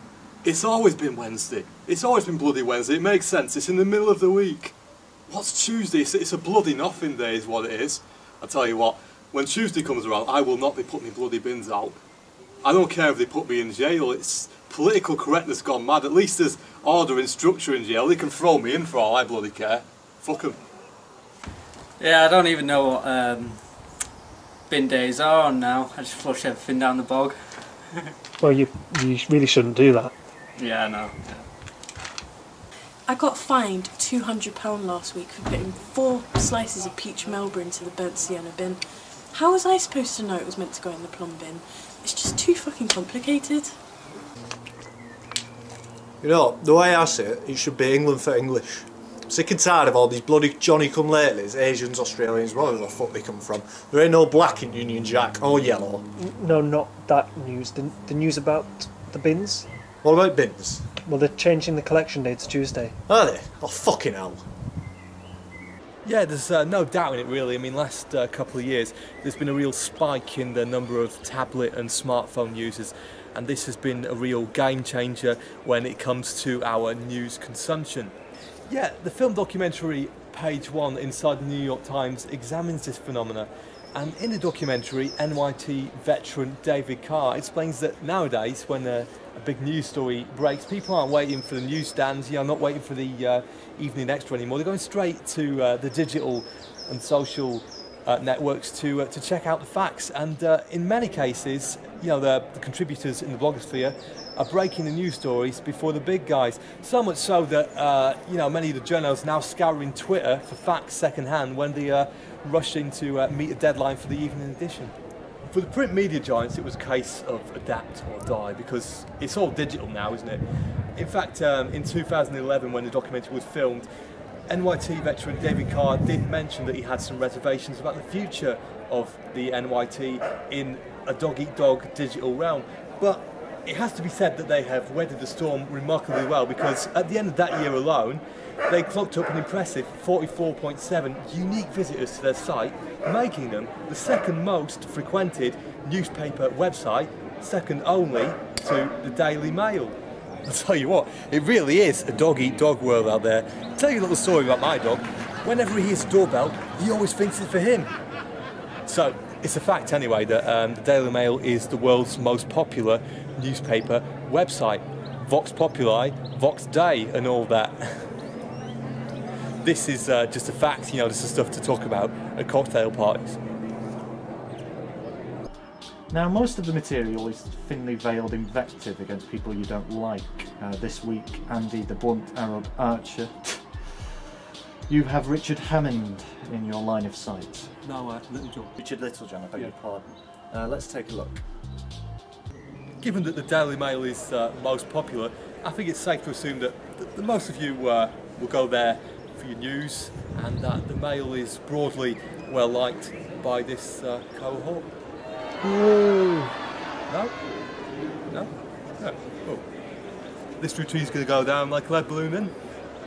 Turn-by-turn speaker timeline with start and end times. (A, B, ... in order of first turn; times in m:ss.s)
0:00.4-0:04.7 A
0:05.3-0:12.0 A
0:12.6-0:20.6 A
0:22.0-0:23.6 B
0:24.7-0:27.4 B
0:28.4-0:30.1 C
0:30.6-0:31.4 B
0:33.1-0:43.8 D
0:46.2-0:56.0 E
0:56.2-0:59.7 C
1:00.0-1:00.8 E
1:01.0-1:03.0 C
1:03.1-1:04.5 E
1:06.0-1:18.1 A
1:18.7-1:54.9 A
1:55.5-2:00.4 A
2:01.0-2:03.9 A
2:04.5-2:37.9 A
2:38.8-2:48.1 A
2:49.6-2:53.4 A
2:56.1-3:04.1 F
3:04.9-3:07.7 F
3:07.8-3:08.7 A
3:08.8-3:11.4 F
3:13.0-3:24.9 A
3:25.6-3:26.5 A
3:27.1-3:27.3 A
3:28.3-3:29.6 A
3:30.6-3:32.5 A